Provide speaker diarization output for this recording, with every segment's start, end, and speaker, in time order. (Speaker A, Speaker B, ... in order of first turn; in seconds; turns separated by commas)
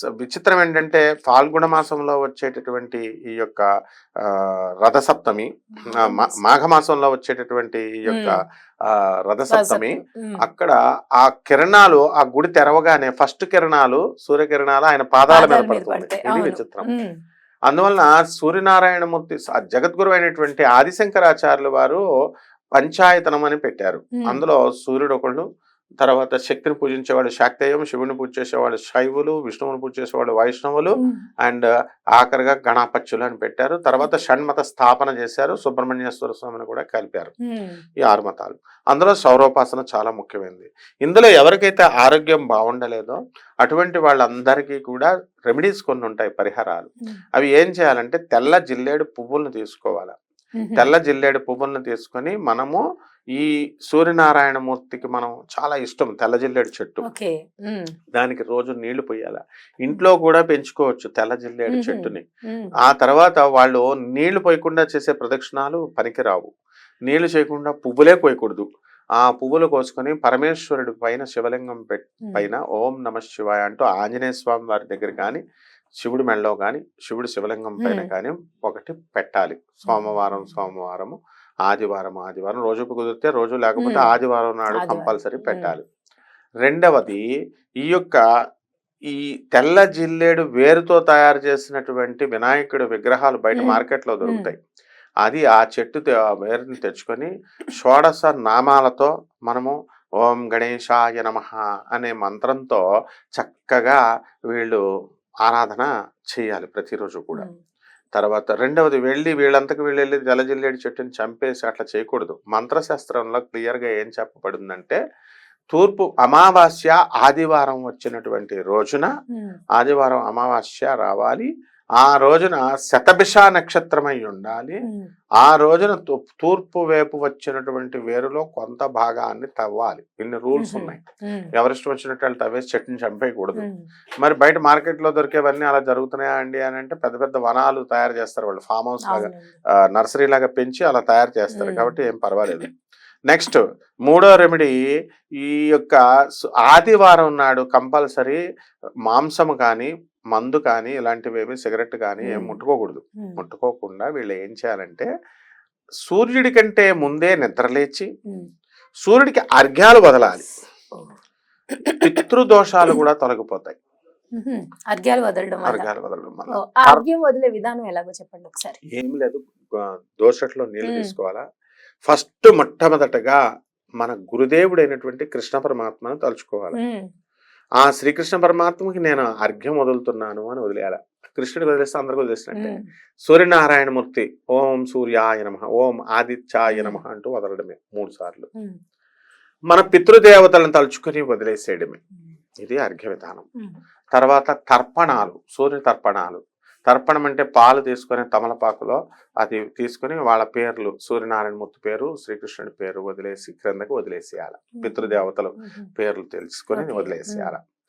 Speaker A: 0.2-3.6, Speaker A: 4.2-16.9, Speaker B: 5.8-6.4, Speaker B: 8.1-8.4, Speaker B: 9.5-10.4, Speaker B: 15.3-17.1, Speaker A: 17.7-22.0, Speaker A: 22.8-25.4, Speaker A: 26.0-30.9, Speaker A: 32.2-37.3, Speaker B: 37.5-37.8, Speaker A: 38.0-50.1, Speaker B: 50.6-50.9, Speaker A: 50.8-52.8, Speaker A: 53.4-57.0, Speaker B: 57.1-57.9, Speaker A: 58.1-62.2, Speaker B: 61.7-62.7, Speaker A: 62.8-66.5, Speaker A: 67.1-68.7, Speaker A: 69.2-75.4, Speaker A: 76.0-85.8, Speaker B: 77.8-78.1, Speaker B: 79.9-80.5, Speaker B: 83.8-84.1, Speaker B: 84.7-85.7, Speaker A: 86.6-87.2, Speaker A: 87.8-88.2, Speaker A: 89.1-94.6, Speaker B: 93.5-94.5, Speaker A: 95.2-102.8, Speaker A: 103.3-104.8, Speaker A: 105.4-107.5, Speaker A: 108.1-115.0, Speaker A: 115.7-119.1, Speaker A: 119.8-121.5, Speaker A: 122.0-124.8, Speaker A: 125.4-131.0, Speaker B: 130.5-131.5, Speaker A: 131.5-133.6, Speaker B: 133.6-133.8, Speaker A: 134.2-142.7, Speaker B: 139.1-139.5, Speaker B: 141.5-141.9, Speaker A: 143.3-144.8, Speaker A: 145.4-148.4, Speaker A: 149.1-155.1, Speaker B: 152.2-152.6, Speaker A: 156.1-158.1, Speaker A: 159.0-160.4, Speaker A: 162.0-163.8, Speaker B: 164.4-165.8, Speaker A: 165.7-167.0, Speaker B: 166.6-168.8, Speaker A: 168.9-171.4, Speaker B: 170.8-171.1, Speaker A: 172.1-173.4, Speaker A: 174.0-176.8, Speaker B: 176.7-177.0, Speaker A: 177.8-182.7, Speaker B: 182.6-182.9, Speaker A: 183.2-188.5, Speaker B: 186.7-187.0, Speaker A: 189.7-192.0, Speaker A: 192.6-193.4, Speaker A: 194.1-207.6, Speaker B: 204.8-205.9, Speaker B: 206.7-207.5